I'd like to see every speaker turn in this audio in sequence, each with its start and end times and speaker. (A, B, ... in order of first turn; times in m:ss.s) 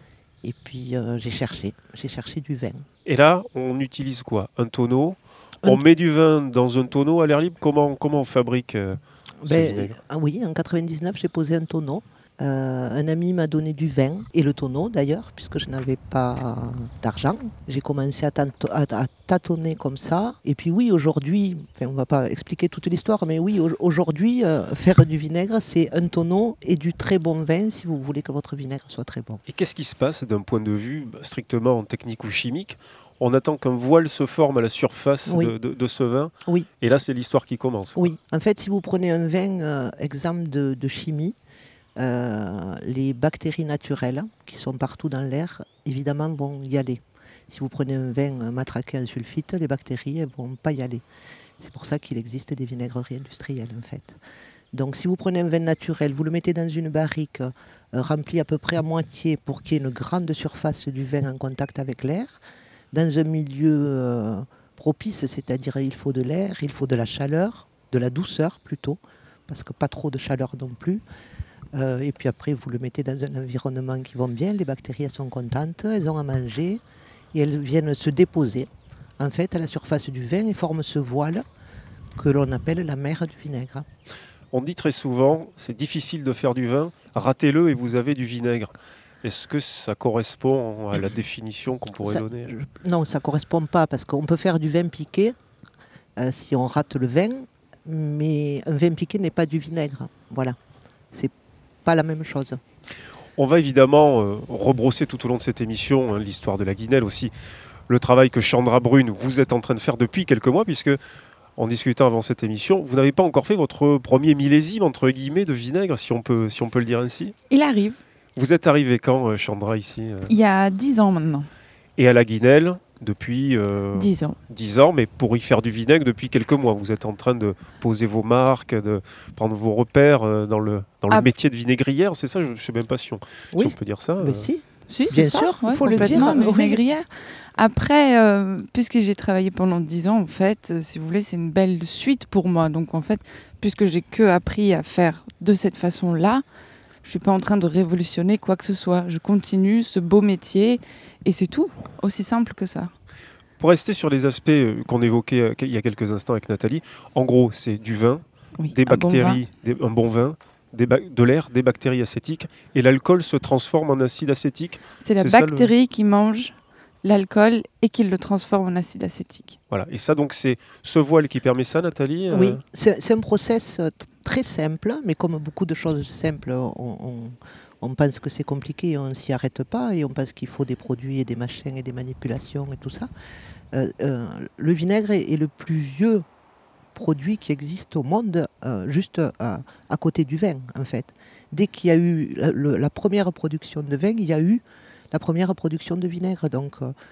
0:00.4-0:02.8 A
0:03.0-0:10.0 B
0:09.4-0:29.4 A
0:29.5-0:38.1 B
0:35.3-0:35.5 A
0:38.0-0:41.4 A
0:42.0-0:51.0 A
0:51.6-0:54.2 A
0:54.7-1:02.4 A
1:02.9-1:11.0 A
1:11.7-1:16.8 A
1:17.3-1:21.4 A
1:22.2-1:23.8 A
1:24.5-1:28.7 B
1:29.2-1:32.5 B
1:32.0-1:35.4 A
1:36.2-1:40.6 A
1:41.1-1:42.6 A
1:43.4-1:47.3 B
1:47.9-1:51.0 B
1:51.6-1:57.3 B
1:57.5-1:58.0 C
1:58.4-2:00.3 B
2:00.3-2:01.5 C
2:02.0-2:14.5 B
2:04.0-2:04.4 C
2:13.5-2:16.8 A
2:14.9-2:26.4 C
2:15.8-2:16.4 B
2:27.0-2:32.9 C
2:33.6-2:45.7 B
2:38.6-2:39.4 C
2:45.0-2:49.6 C
2:49.7-2:52.6 B
2:52.3-3:03.1 A
3:03.7-3:06.2 A
3:06.9-3:16.9 A